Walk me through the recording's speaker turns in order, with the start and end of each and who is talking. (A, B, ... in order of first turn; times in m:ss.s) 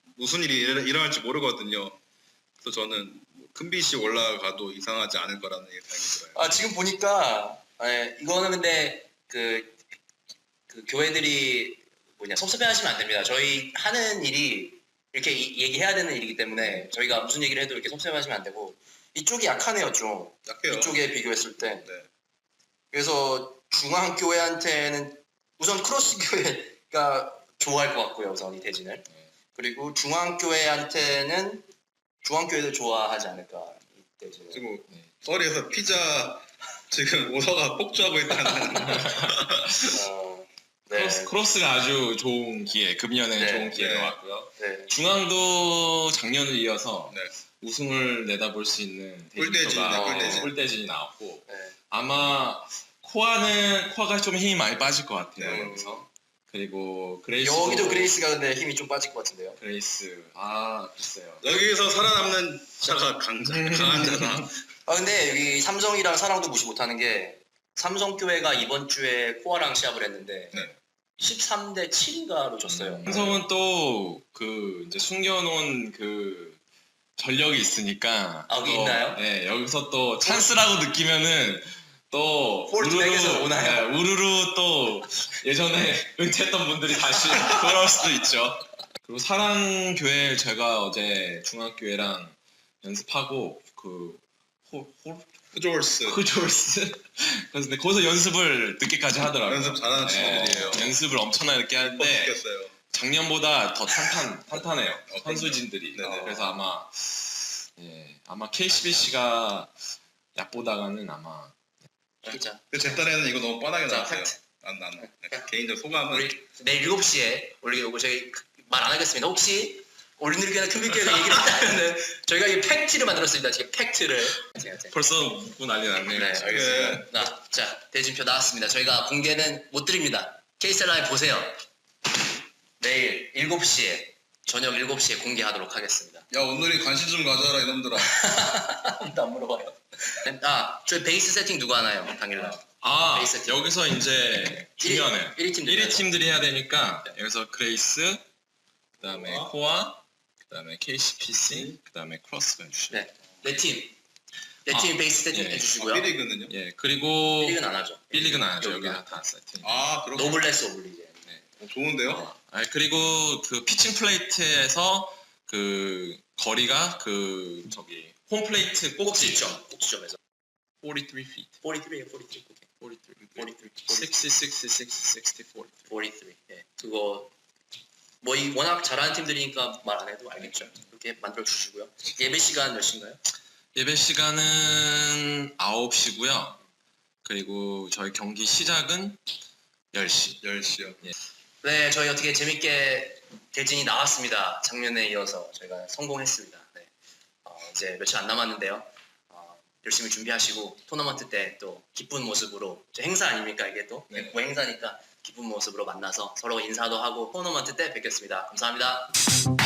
0:00.1-0:02.0 A
0:02.6-0:06.4 A
0:06.3-0:09.8 B
0:10.7-0:21.9 B
0:20.4-0:21.0 A
0:22.9-0:31.6 B
0:32.2-0:34.6 B
0:34.5-0:39.7 A
0:38.9-0:39.9 C
0:39.9-0:41.4 B
0:40.9-0:58.1 C
0:43.4-0:43.8 B
0:43.7-0:44.2 A
0:44.6-0:44.9 B
0:49.4-0:50.5 A
0:49.9-0:50.5 B
0:51.5-0:51.7 B
0:55.4-0:55.6 A
0:55.4-0:56.1 B
0:57.4-0:59.6 B
0:59.6-1:01.6 C
1:01.4-1:04.5 A
1:03.4-1:04.5 C
1:04.9-1:10.6 B
1:11.2-1:13.2 B
1:12.7-1:16.6 C
1:17.2-1:35.3 C
1:18.5-1:19.2 B
1:22.7-1:23.9 B
1:35.5-1:36.2 A
1:36.0-1:42.4 C
1:39.4-1:40.9 A
1:41.9-1:42.7 A
1:42.9-1:49.7 C
1:45.1-1:46.4 A
1:46.0-1:46.5 B
1:50.4-1:51.5 C
1:52.2-1:53.1 B
1:52.7-1:56.3 A
1:53.9-1:54.4 B
1:55.0-1:55.5 B
1:56.1-2:05.0 B
2:04.8-2:07.1 C
2:06.1-2:11.6 B
2:06.4-2:07.1 A
2:12.8-2:16.3 B
2:16.3-2:18.1 A
2:18.0-2:23.7 B
2:22.6-2:28.2 C
2:24.8-2:26.4 B
2:29.0-2:33.1 C
2:32.9-2:33.9 B
2:34.6-2:36.1 B
2:34.7-2:35.7 C
2:35.8-2:36.5 A
2:36.5-2:39.8 C
2:37.4-2:39.2 B
2:39.6-2:40.4 A
2:40.1-2:41.2 B
2:41.6-2:42.3 A
2:42.0-2:49.6 C
2:49.0-2:50.2 B
2:50.8-2:51.6 C
2:51.6-2:52.6 B
2:52.8-2:55.9 C
2:53.4-2:54.2 B
2:55.9-2:57.3 B
2:58.2-3:03.2 B
3:03.7-3:06.6 C
3:07.2-3:09.2 C
3:09.9-3:10.4 C
3:10.4-3:11.0 A
3:11.6-3:16.9 B
3:17.4-3:29.1 B
3:24.1-3:24.4 C